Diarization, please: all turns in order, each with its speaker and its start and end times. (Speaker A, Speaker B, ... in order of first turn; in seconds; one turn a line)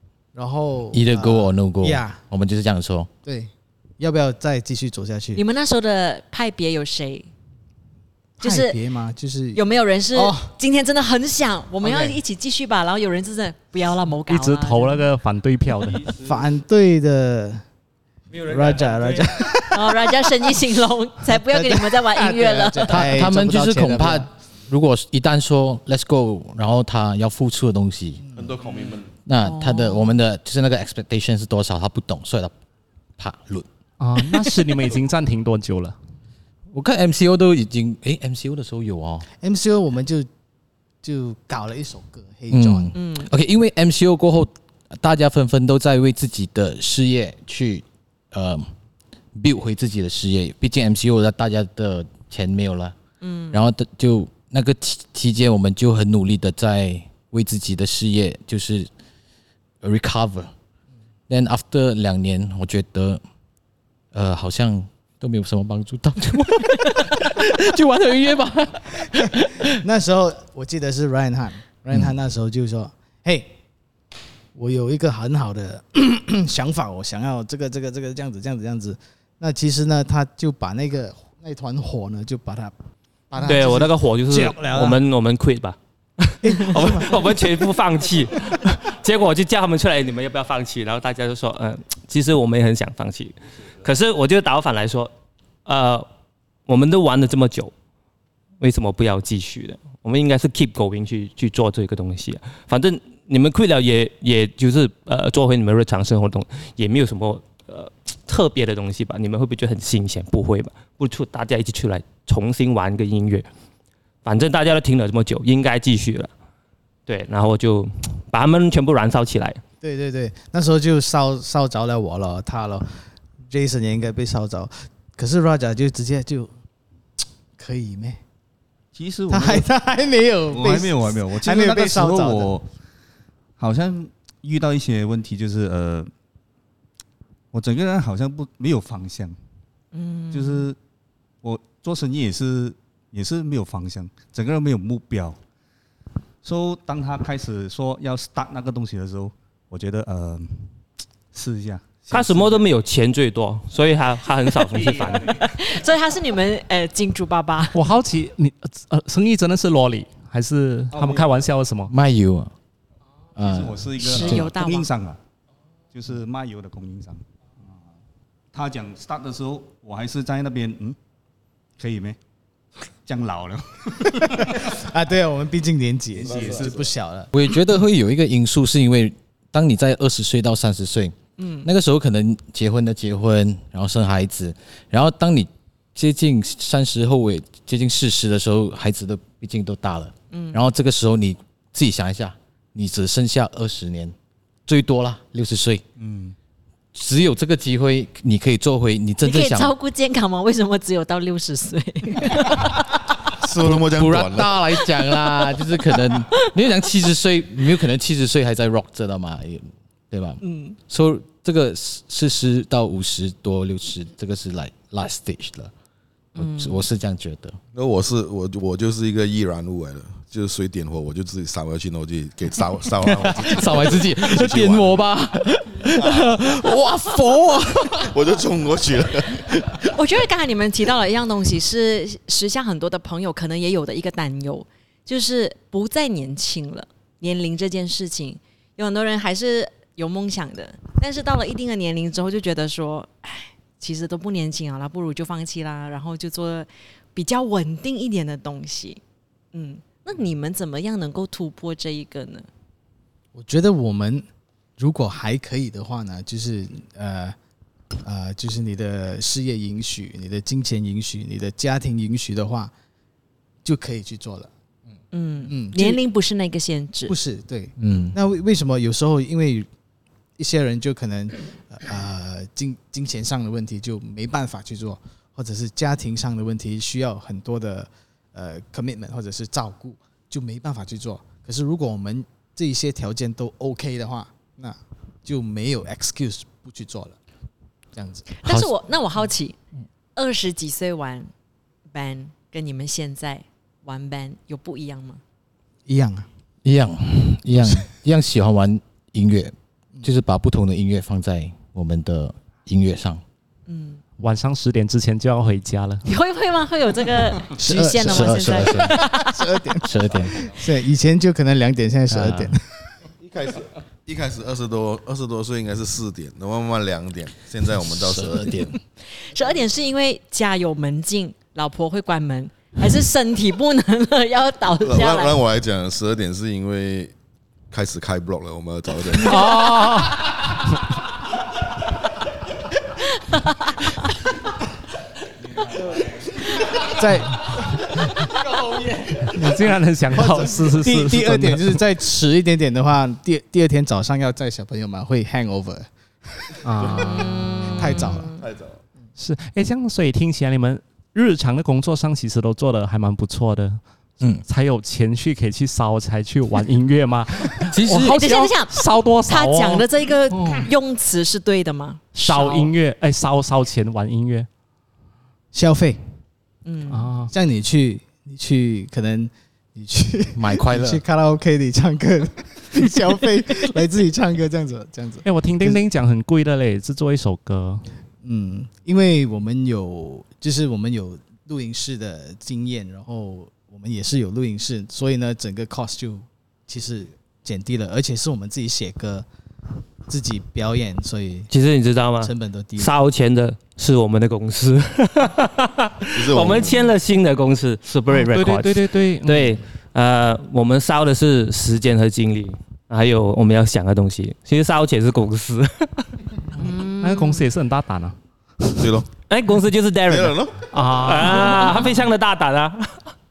Speaker A: 0.3-2.2
Speaker B: 0.9-3.1
Speaker A: 3.2-5.4
Speaker C: 5.3-7.3
Speaker A: 8.4-10.5
Speaker C: 8.4-8.8
Speaker C: 9.5-15.1
Speaker A: 11.8-12.2
Speaker D: 14.3-16.1
Speaker A: 16.1-17.6
Speaker A: 18.3-20.6
Speaker C: 19.7-23.1
Speaker A: 21.3-24.3
Speaker B: 22.9-28.2
Speaker E: 28.4-29.1
Speaker B: 29.2-32.5
Speaker C: 29.4-30.1
Speaker B: 33.2-33.7
Speaker D: 34.0-36.0
Speaker B: 34.2-34.5
Speaker B: 36.7-39.3
Speaker A: 39.4-40.3
Speaker A: 41.0-42.9
Speaker B: 42.5-48.7
Speaker C: 42.9-43.3
Speaker B: 49.3-53.0
Speaker C: 53.2-53.6
Speaker B: 53.5-58.9
Speaker B: 59.8-60.5
Speaker B: 61.3-63.2
Speaker B: 64.1-69.8
Speaker A: 69.8-73.5
Speaker A: 74.5-82.7
Speaker A: 83.3-85.0
Speaker F: 83.4-95.1
Speaker A: 86.4-87.3
Speaker F: 95.7-96.1
Speaker F: 96.7-97.7
Speaker F: 98.6-113.5
Speaker F: 114.2-116.3
Speaker F: 117.1-119.6
Speaker A: 119.8-122.9
Speaker A: 123.5-126.5
Speaker A: 127.6-128.2
Speaker G: 128.9-129.7
Speaker A: 129.3-132.5
Speaker G: 130.5-132.7
Speaker G: 133.6-136.1
Speaker G: 137.5-139.4
Speaker C: 139.9-140.7
Speaker G: 140.3-140.8
Speaker G: 141.4-145.4
Speaker G: 146.4-150.7
Speaker G: 151.3-152.6
Speaker F: 152.1-155.4
Speaker G: 154.9-155.4
Speaker C: 155.4-157.8
Speaker D: 157.7-161.9
Speaker G: 160.9-161.3
Speaker B: 161.9-162.5
Speaker B: 163.3-164.5
Speaker G: 163.4-165.2
Speaker C: 164.0-164.9
Speaker G: 165.9-167.7
Speaker G: 168.5-171.0
Speaker G: 171.8-172.2
Speaker G: 173.1-174.7
Speaker A: 174.5-177.3
Speaker G: 176.2-176.8
Speaker E: 176.3-176.7
Speaker B: 177.3-194.1
Speaker C: 181.4-181.7
Speaker C: 190.3-190.6
Speaker B: 194.7-195.8
Speaker G: 196.0-196.3
Speaker B: 196.9-199.7
Speaker C: 199.2-203.0
Speaker E: 203.4-204.7
Speaker B: 203.6-215.7
Speaker C: 206.1-206.5
Speaker C: 210.4-210.8
Speaker C: 216.3-216.8
Speaker B: 216.3-217.6
Speaker E: 217.7-225.1
Speaker B: 223.0-228.2
Speaker E: 225.9-226.6
Speaker E: 227.9-229.9
Speaker C: 229.9-249.0
Speaker C: 249.5-252.5
Speaker A: 253.3-257.4
Speaker A: 258.0-262.7
Speaker A: 263.6-264.5
Speaker C: 265.1-267.1
Speaker A: 265.4-266.0
Speaker A: 267.1-269.7
Speaker B: 267.8-268.2
Speaker A: 270.4-287.2
Speaker A: 287.9-288.3
Speaker C: 288.3-289.6
Speaker C: 290.1-291.3
Speaker C: 291.9-295.2
Speaker A: 295.9-296.3
Speaker B: 296.6-303.2
Speaker C: 303.7-304.0
Speaker D: 304.2-306.0
Speaker C: 306.0-309.4
Speaker A: 307.5-312.7
Speaker B: 307.9-309.1
Speaker B: 309.8-310.5
Speaker B: 312.1-312.5
Speaker E: 313.2-318.7
Speaker B: 317.6-318.8
Speaker C: 319.1-325.4
Speaker E: 324.8-327.1
Speaker E: 327.7-329.5
Speaker D: 329.2-330.5
Speaker C: 333.0-334.1
Speaker A: 336.7-337.8
Speaker D: 339.1-341.8
Speaker A: 340.1-346.6
Speaker D: 346.6-348.1
Speaker C: 347.1-348.4
Speaker A: 347.7-348.3
Speaker E: 348.3-348.7
Speaker D: 349.2-353.8
Speaker D: 354.4-360.7
Speaker B: 357.7-358.2
Speaker C: 357.9-362.7
Speaker D: 362.1-364.5
Speaker A: 365.5-366.0
Speaker C: 366.6-367.1
Speaker D: 366.9-367.3
Speaker A: 367.3-375.8
Speaker B: 370.3-371.0
Speaker D: 375.2-377.8
Speaker A: 378.2-389.2
Speaker A: 390.1-391.5
Speaker F: 391.5-406.1
Speaker A: 392.2-392.9
Speaker E: 396.1-396.8
Speaker D: 398.1-399.6
Speaker C: 406.6-407.5
Speaker D: 406.6-408.8
Speaker E: 408.7-409.1
Speaker F: 409.3-410.4
Speaker E: 410.1-410.7
Speaker D: 410.7-411.9
Speaker F: 411.0-413.1